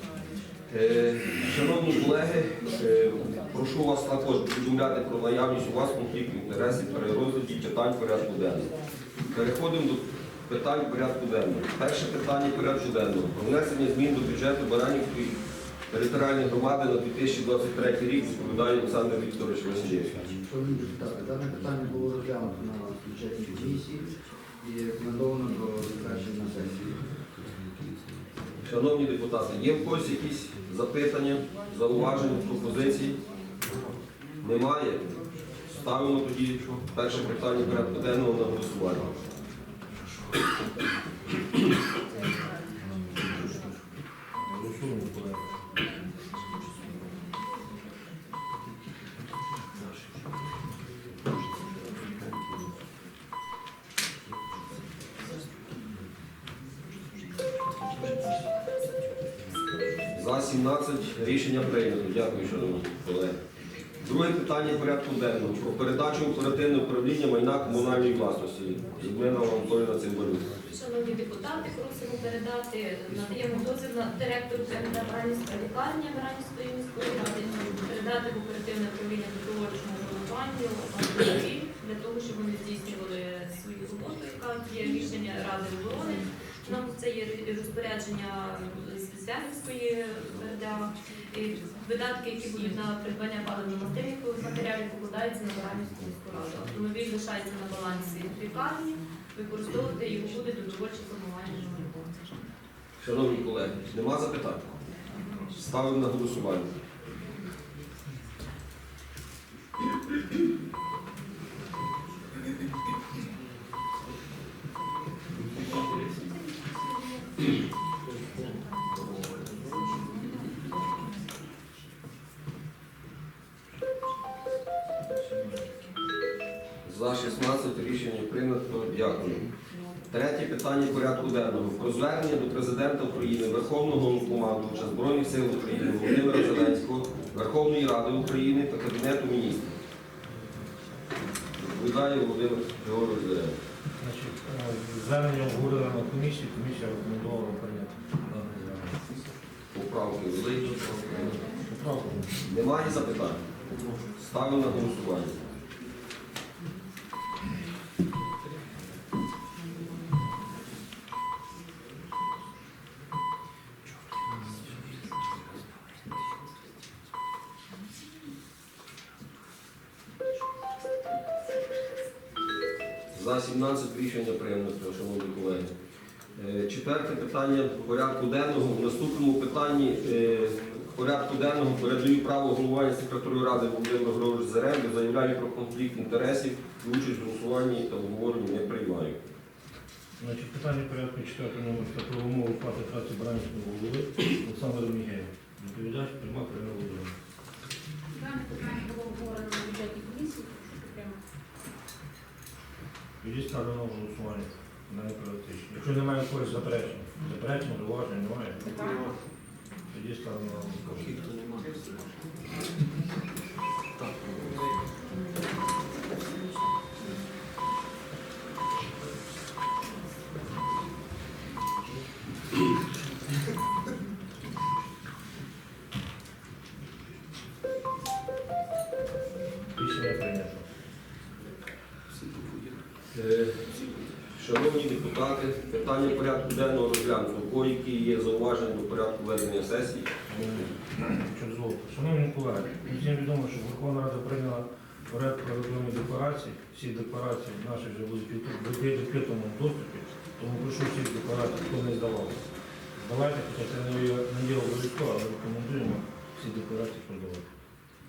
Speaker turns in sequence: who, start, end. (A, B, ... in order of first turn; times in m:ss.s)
0:00.7-0:08.7 A
0:09.3-0:20.3 A
0:20.4-0:24.1 B
0:24.6-0:27.0 B
0:28.6-0:33.2 A
0:34.4-0:35.1 A
0:35.7-0:39.1 A
0:44.4-0:45.4 C
1:00.1-1:03.4 A
1:04.0-1:10.5 A
1:10.7-1:42.3 D
1:43.0-1:44.7 A
1:45.5-1:46.7 A
1:59.7-2:00.2 E
2:06.8-2:09.5 A
2:10.1-2:19.7 A
2:21.6-2:23.6 A
2:24.0-2:29.0 C
2:29.7-2:31.4 A
2:31.7-2:32.4 C
2:32.4-2:33.4 A
2:34.2-2:35.4 A
2:53.1-2:55.7 A
2:56.4-3:09.2 A
3:10.2-3:17.1 C
3:18.1-3:21.2 E
3:23.2-3:28.7 C
3:28.6-3:29.1 E
3:29.9-3:31.3 C
3:49.7-3:50.6 C
3:53.1-4:00.1 A
4:00.3-4:12.4 C
4:13.0-4:17.4 C